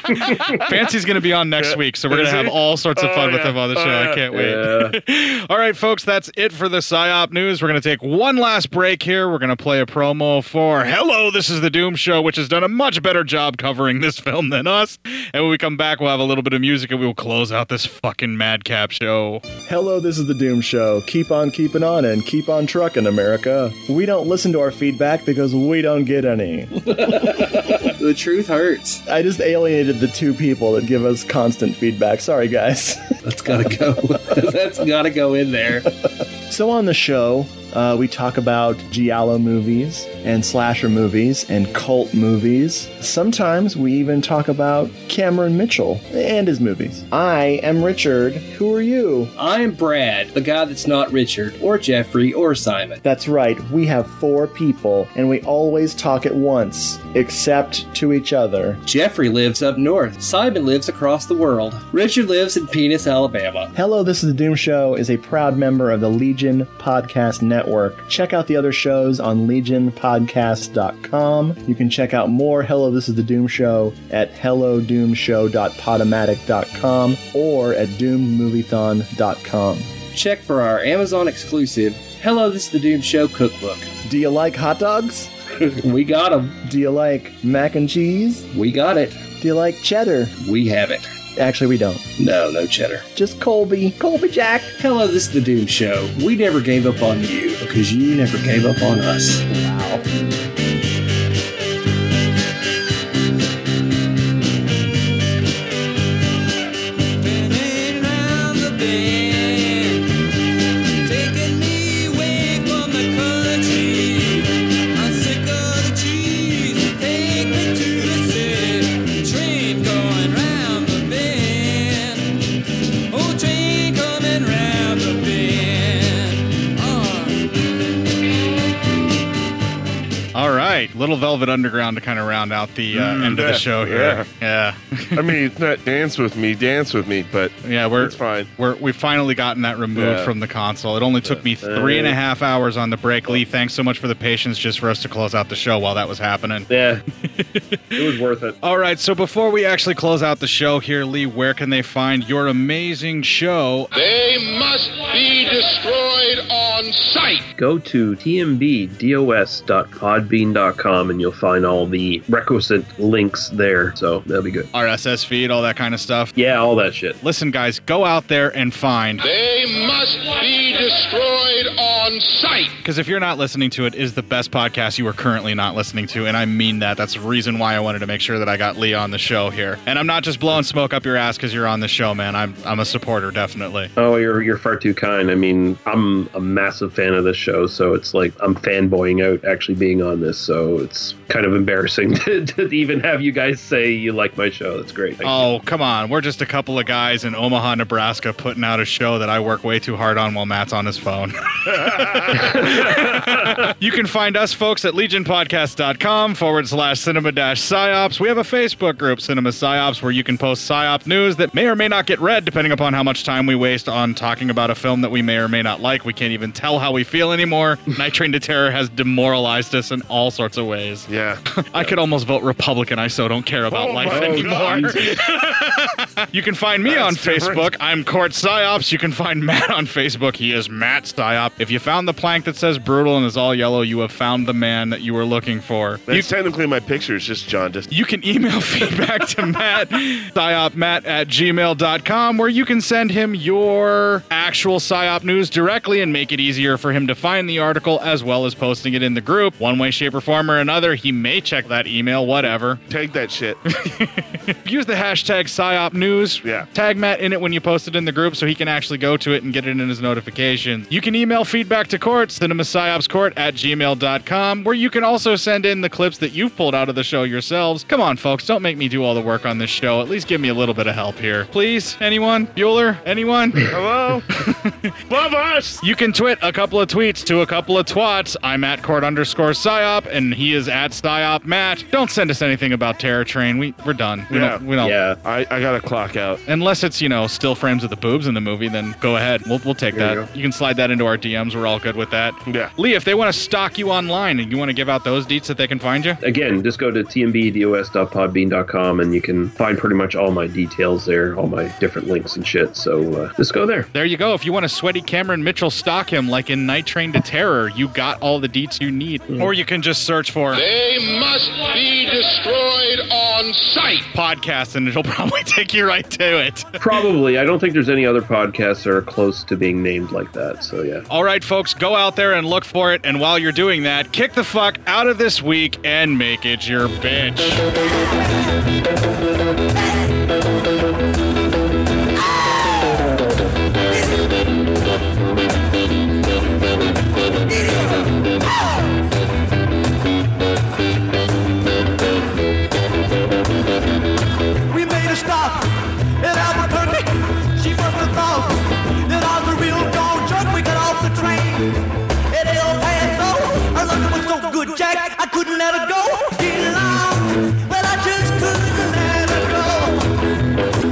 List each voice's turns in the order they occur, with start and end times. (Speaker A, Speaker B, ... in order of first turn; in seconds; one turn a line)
Speaker A: 0.1-0.4
Speaker B: 0.6-19.4
Speaker C: 1.6-4.2
Speaker A: 4.3-5.0
Speaker D: 19.6-26.8
Speaker E: 26.9-29.0
Speaker D: 29.1-33.0
Speaker E: 33.2-35.8
Speaker D: 36.5-49.3
Speaker E: 49.4-53.0
Speaker D: 53.0-58.8
Speaker E: 58.9-63.7
Speaker D: 63.7-79.9
Speaker E: 80.1-83.9
Speaker D: 84.0-85.3
Speaker E: 85.8-86.5
Speaker D: 86.6-88.5
Speaker E: 88.5-89.3
Speaker D: 89.3-90.4
Speaker E: 90.4-91.1
Speaker D: 91.3-92.1
Speaker E: 92.2-93.0
Speaker D: 93.1-94.8
Speaker E: 94.8-99.5
Speaker F: 107.2-110.1
Speaker F: 111.0-122.4
Speaker F: 123.1-127.4
Speaker B: 130.3-135.2
Speaker C: 132.9-134.2
Speaker C: 135.2-138.5
Speaker B: 137.6-146.7
Speaker A: 139.9-140.3
Speaker A: 141.2-142.2
Speaker A: 146.7-147.0
Speaker B: 147.3-147.8
Speaker A: 147.9-148.6
Speaker B: 148.6-153.9
Speaker G: 153.9-157.5
Speaker A: 157.6-164.7
Speaker B: 164.7-166.3
Speaker A: 166.3-167.2
Speaker B: 167.2-169.2
Speaker G: 169.2-172.8
Speaker B: 172.8-183.9
Speaker A: 184.0-195.4
Speaker B: 195.2-221.1
Speaker C: 201.7-202.4
Speaker A: 202.3-203.6
Speaker C: 221.1-221.9
Speaker B: 221.6-236.3
Speaker C: 223.7-225.4
Speaker A: 224.1-224.9
Speaker C: 226.9-227.7
Speaker C: 236.1-237.9
Speaker B: 237.9-252.8
Speaker C: 252.9-253.6
Speaker B: 253.7-273.7
Speaker C: 273.7-274.2
Speaker B: 274.4-274.8
Speaker C: 275.1-275.8
Speaker B: 275.8-284.9
Speaker C: 284.3-284.6
Speaker A: 284.8-285.2
Speaker C: 285.2-286.4
Speaker B: 286.5-296.2
Speaker A: 289.9-290.2
Speaker C: 292.5-292.7
Speaker A: 296.2-303.9
Speaker B: 303.9-310.6
Speaker G: 310.5-314.1
Speaker B: 314.1-316.8
Speaker A: 316.8-321.1
Speaker B: 321.1-327.6
Speaker H: 354.2-357.0
Speaker H: 357.8-359.0